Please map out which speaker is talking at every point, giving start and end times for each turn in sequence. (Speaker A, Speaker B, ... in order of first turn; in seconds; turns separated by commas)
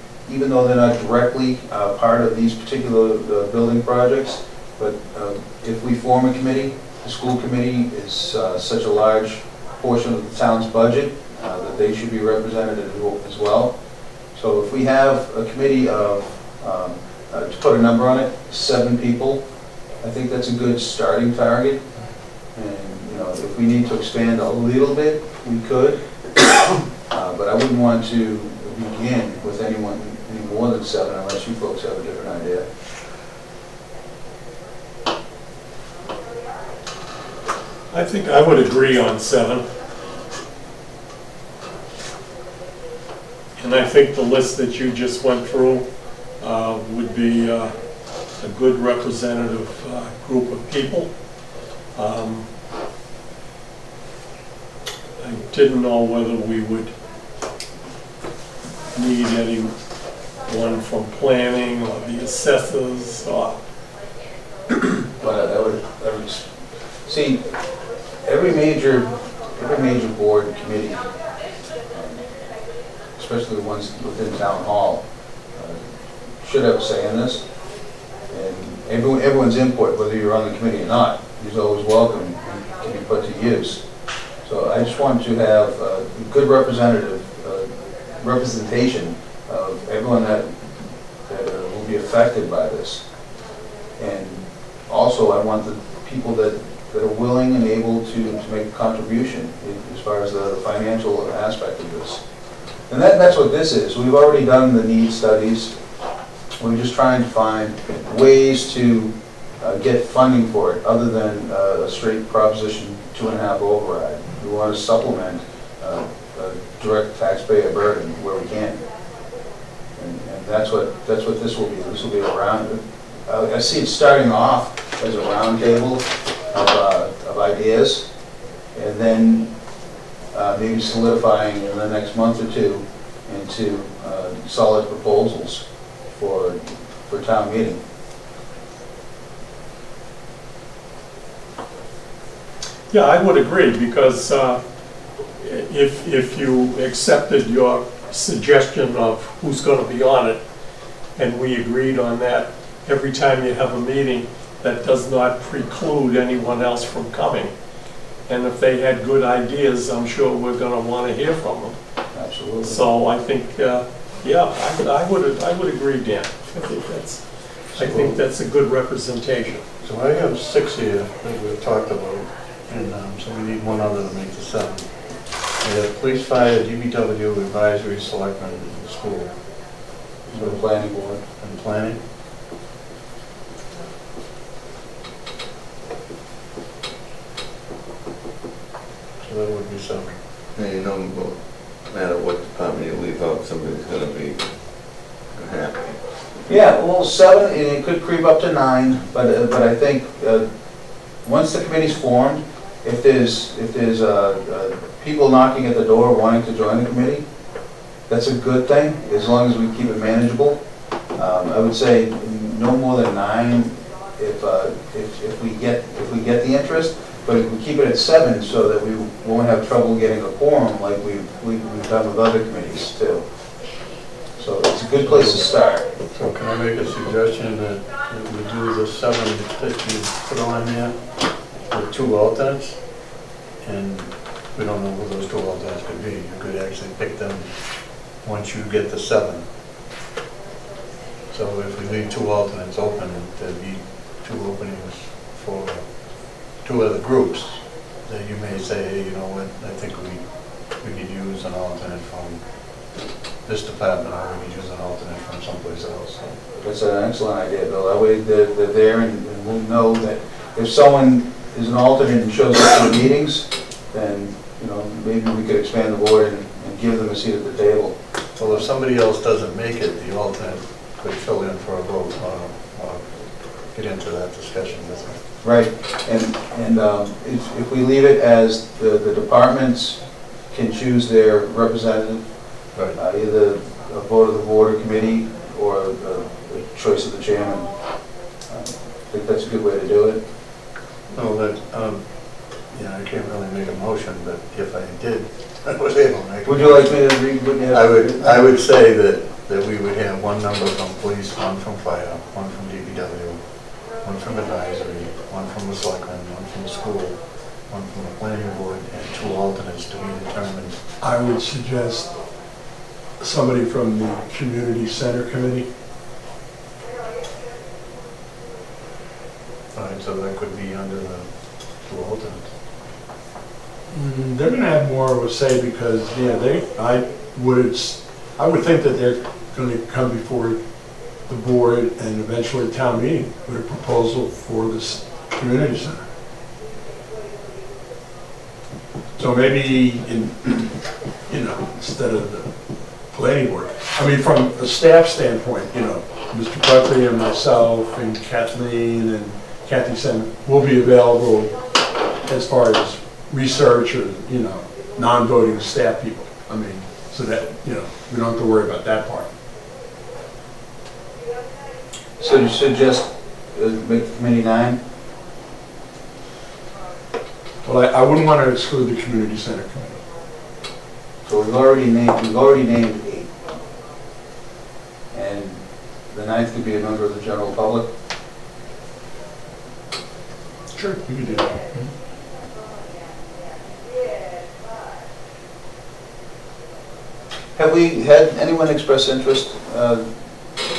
Speaker A: 0.3-13.7, Speaker A: 14.3-19.4, Speaker A: 20.0-21.8, Speaker A: 22.6-26.0, Speaker A: 27.1-32.7, Speaker B: 37.9-39.6, Speaker B: 43.6-45.9, Speaker B: 46.4-47.7, Speaker B: 48.4-51.1, Speaker B: 52.0-52.5, Speaker B: 55.2-56.9, Speaker B: 58.9-59.7, Speaker B: 60.5-63.6, Speaker A: 65.2-66.5, Speaker A: 67.1-67.4, Speaker A: 68.3-71.1, Speaker A: 71.9-72.2, Speaker A: 73.2-75.8, Speaker A: 76.4-77.4, Speaker A: 78.3-83.8, Speaker A: 84.4-90.7, Speaker A: 91.3-93.0, Speaker A: 94.0-102.2, Speaker A: 102.9-105.8, Speaker A: 106.6-118.8, Speaker A: 120.0-128.1, Speaker A: 128.8-129.5, Speaker A: 130.3-137.8, Speaker B: 142.9-144.6, Speaker B: 145.4-150.4, Speaker B: 151.2-157.5, Speaker B: 158.3-161.8, Speaker A: 162.1-162.8, Speaker B: 162.6-167.2, Speaker B: 167.8-169.7, Speaker C: 167.8-168.2, Speaker C: 169.8-174.9, Speaker C: 175.6-179.3, Speaker A: 180.3-181.2, Speaker C: 180.3-180.6, Speaker C: 181.4-182.0, Speaker C: 189.2-190.1, Speaker D: 190.6-194.5, Speaker D: 195.3-196.0, Speaker A: 196.5-200.5, Speaker A: 201.2-207.2, Speaker A: 208.1-210.6, Speaker A: 211.2-223.2, Speaker A: 224.4-225.9, Speaker C: 225.1-225.5, Speaker C: 226.1-231.0, Speaker C: 231.7-232.8, Speaker C: 233.6-237.5, Speaker C: 238.2-239.5, Speaker C: 241.3-245.9, Speaker C: 246.6-250.2, Speaker C: 250.8-252.4, Speaker C: 253.4-256.4, Speaker A: 256.6-268.0, Speaker C: 268.4-273.2, Speaker C: 273.7-275.2, Speaker A: 275.4-280.0, Speaker A: 280.5-282.2, Speaker A: 282.9-287.7, Speaker A: 288.5-290.2, Speaker C: 291.1-292.1, Speaker C: 292.7-297.1, Speaker A: 296.4-298.5, Speaker C: 297.7-303.4, Speaker C: 304.0-307.2, Speaker C: 307.7-310.8, Speaker E: 311.0-312.1, Speaker E: 313.2-315.7, Speaker C: 319.7-321.3, Speaker C: 321.8-322.5, Speaker E: 323.9-330.6, Speaker E: 331.3-336.1, Speaker E: 339.2-340.7, Speaker E: 341.3-342.5, Speaker E: 343.1-351.5, Speaker E: 352.3-359.3, Speaker A: 362.2-364.8, Speaker E: 367.6-370.0, Speaker A: 371.2-373.3, Speaker A: 375.1-377.9, Speaker E: 380.8-381.9, Speaker A: 387.6-390.1